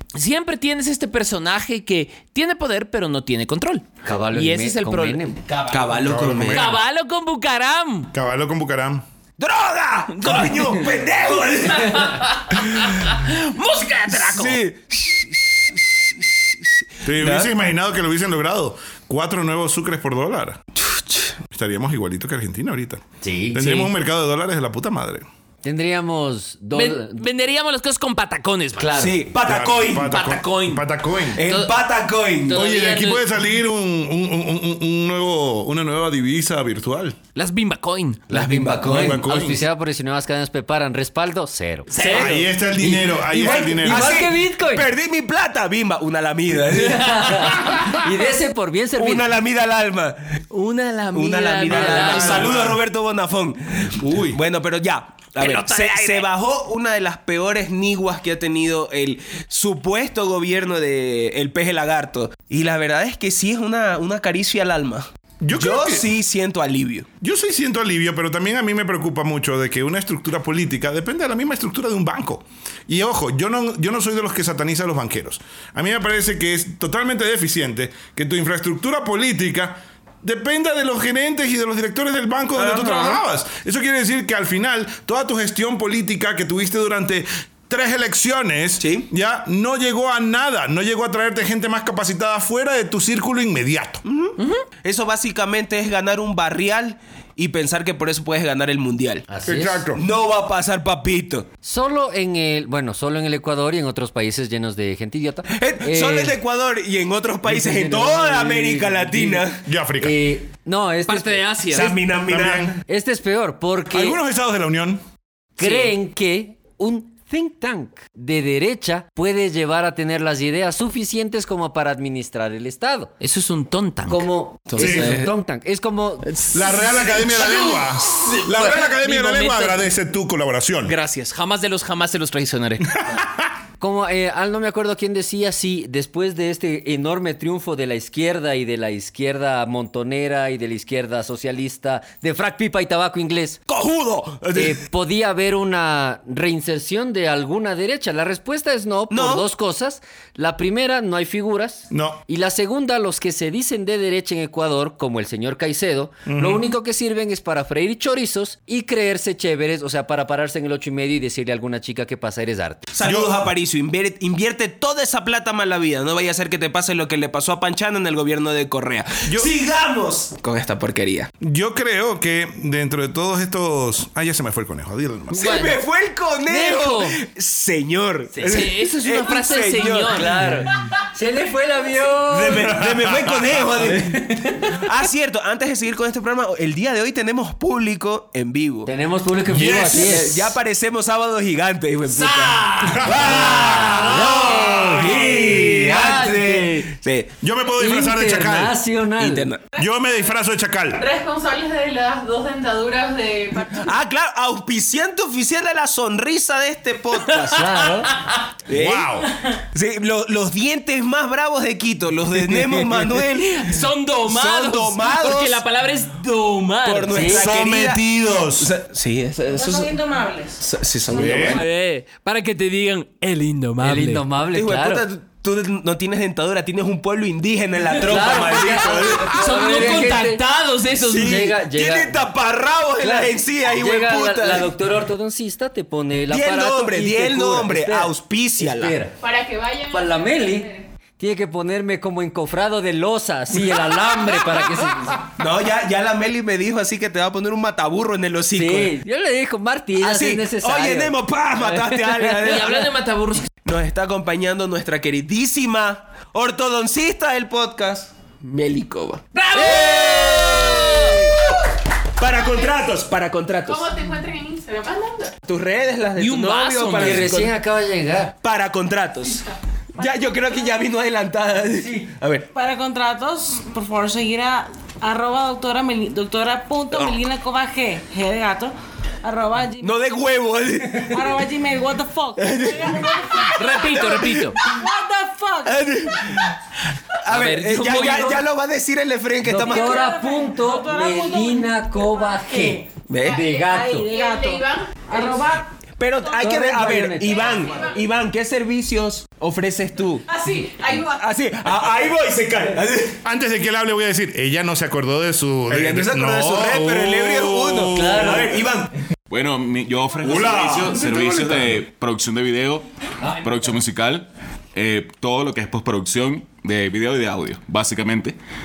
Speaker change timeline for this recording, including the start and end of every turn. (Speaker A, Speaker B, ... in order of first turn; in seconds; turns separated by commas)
Speaker A: 0.1-8.1, Speaker B: 4.0-5.4, Speaker C: 5.7-6.7, Speaker D: 6.0-6.8, Speaker D: 8.1-9.0, Speaker C: 9.4-12.2, Speaker A: 10.1-14.6, Speaker C: 14.1-17.5, Speaker D: 17.0-20.6, Speaker C: 20.8-21.3, Speaker D: 21.5-25.3, Speaker B: 23.2-23.9, Speaker B: 25.6-27.2, Speaker A: 26.8-29.0, Speaker B: 28.8-29.1, Speaker C: 28.9-30.2, Speaker D: 29.4-31.4, Speaker A: 30.1-30.9, Speaker C: 31.4-32.6, Speaker A: 31.4-31.8, Speaker A: 32.4-33.2, Speaker D: 32.5-37.2, Speaker A: 37.3-38.8, Speaker B: 38.3-44.9, Speaker C: 38.4-39.0, Speaker D: 38.8-39.6, Speaker A: 41.9-42.4, Speaker D: 42.1-44.2, Speaker C: 43.4-47.7, Speaker B: 46.7-49.2, Speaker C: 49.0-50.4, Speaker A: 50.5-52.6, Speaker C: 51.1-67.1, Speaker D: 51.7-52.8, Speaker D: 54.0-54.4, Speaker A: 55.4-56.3, Speaker D: 65.4-66.1, Speaker D: 67.2-94.0, Speaker C: 82.5-83.2, Speaker C: 88.8-89.0, Speaker C: 94.0-99.2, Speaker A: 94.4-94.6, Speaker B: 99.3-99.8, Speaker D: 99.5-100.0, Speaker C: 100.0-101.5, Speaker B: 101.6-106.4, Speaker C: 105.5-109.6, Speaker B: 107.5-109.5, Speaker D: 109.6-110.2, Speaker B: 110.0-111.9, Speaker A: 111.1-111.9, Speaker C: 111.7-112.8, Speaker D: 112.2-112.8, Speaker B: 112.9-114.2, Speaker D: 113.9-115.0, Speaker B: 115.6-123.1, Speaker A: 115.6-115.9, Speaker A: 123.2-124.2, Speaker B: 124.1-126.5, Speaker C: 124.7-125.3, Speaker D: 124.8-125.2, Speaker D: 126.5-130.9, Speaker A: 126.6-129.8, Speaker A: 130.9-132.9, Speaker D: 132.9-133.5, Speaker B: 133.8-143.6, Speaker C: 143.7-144.8, Speaker B: 144.5-162.9, Speaker C: 149.1-149.5, Speaker D: 151.9-152.2, Speaker D: 156.2-156.6, Speaker C: 162.9-171.3, Speaker D: 163.0-163.4, Speaker D: 169.2-169.5, Speaker D: 171.4-175.6, Speaker A: 175.3-175.8, Speaker C: 175.3-180.3, Speaker A: 176.4-177.2, Speaker A: 178.4-180.5, Speaker B: 180.1-182.8, Speaker C: 182.3-188.9, Speaker D: 182.8-183.7, Speaker B: 183.8-184.6, Speaker B: 188.8-190.5, Speaker D: 189.5-190.2, Speaker C: 189.8-197.3, Speaker A: 192.1-194.8, Speaker D: 192.8-195.5, Speaker B: 193.1-196.9, Speaker D: 197.4-198.8, Speaker B: 197.8-199.5, Speaker C: 199.2-199.6, Speaker D: 199.8-201.1, Speaker E: 201.0-203.9, Speaker C: 203.8-207.7, Speaker A: 207.3-208.4, Speaker B: 207.5-208.1, Speaker C: 208.7-209.1, Speaker D: 208.7-209.3, Speaker C: 209.7-215.6, Speaker A: 212.3-217.3, Speaker C: 216.8-218.0, Speaker B: 217.1-217.5, Speaker D: 217.3-218.7, Speaker C: 218.6-219.9, Speaker F: 219.5-220.7, Speaker C: 220.6-221.6, Speaker D: 221.1-221.6, Speaker F: 221.3-221.6, Speaker A: 221.5-224.2, Speaker B: 223.8-225.0, Speaker C: 224.5-229.8, Speaker B: 228.0-230.4, Speaker A: 229.3-231.5, Speaker C: 231.0-234.7, Speaker B: 231.1-232.2, Speaker B: 233.0-239.1, Speaker C: 236.3-238.9, Speaker E: 239.2-240.8, Speaker B: 239.9-245.2, Speaker C: 245.4-248.9, Speaker B: 248.5-252.7, Speaker C: 250.0-252.9, Speaker A: 252.4-253.5, Speaker C: 253.6-263.9, Speaker A: 259.3-261.3, Speaker E: 262.4-262.7, Speaker E: 263.6-265.4, Speaker C: 265.4-267.5, Speaker A: 266.2-267.5, Speaker B: 267.0-268.4, Speaker C: 268.4-272.5, Speaker F: 272.5-279.9, Speaker C: 279.8-281.4, Speaker F: 281.1-286.0, Speaker C: 282.4-284.7, Speaker A: 283.6-284.6, Speaker C: 285.6-286.6, Speaker C: 287.2-290.0, Speaker A: 287.2-288.4, Speaker B: 289.4-294.1, Speaker F: 289.6-295.7, Speaker C: 293.1-293.4, Speaker E: 293.9-295.5, Speaker C: 296.0-300.2, Speaker B: 296.4-297.6, Speaker E: 297.3-298.0, Speaker E: 300.3-301.2, Speaker F: 300.5-300.9, Speaker C: 301.1-303.2, Speaker D: 303.2-308.6, Speaker C: 305.7-308.9, Speaker B: 307.9-308.6, Speaker G: 309.3-318.4, Speaker D: 310.2-311.6, Speaker C: 310.5-310.9